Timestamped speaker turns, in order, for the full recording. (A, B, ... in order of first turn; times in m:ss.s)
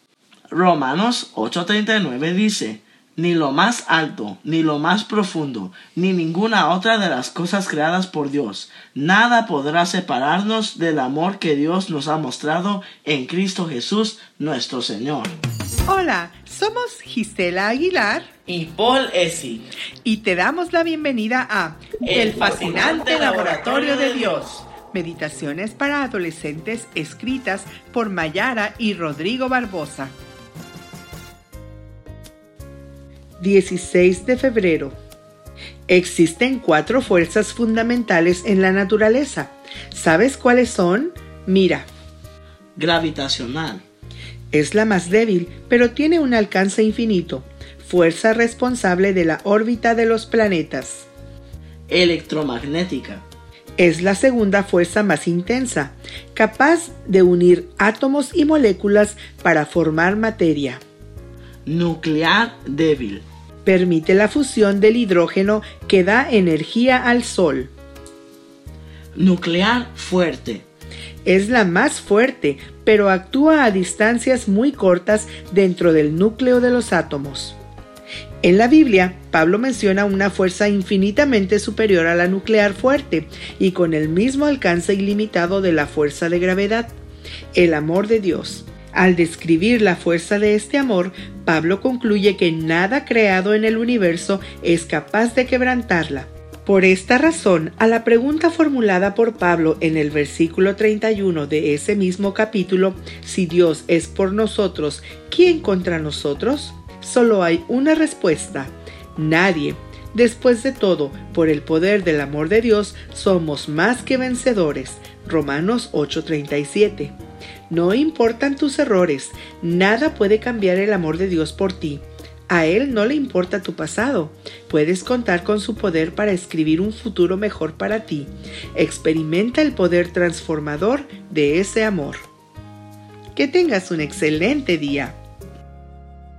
0:00.5-0:15.4 A
0:15.8-0:18.3 B
0:18.5-0:19.7 A
0:20.0-0:30.1 B
0:22.0-0:24.6 A
0:33.4-0:35.0 B
0:35.9-0:41.9 B
0:42.8-0:43.8 A
0:44.5-0:51.1 B
0:51.9-0:53.2 A
0:53.8-1:00.8 B
1:01.6-1:03.2 A
1:03.6-1:07.7 B
1:09.1-1:10.6 A
1:11.2-1:17.6 B
1:18.4-1:26.9 B
1:27.5-1:57.1 B
1:57.7-2:12.2 B
2:13.3-2:15.2 B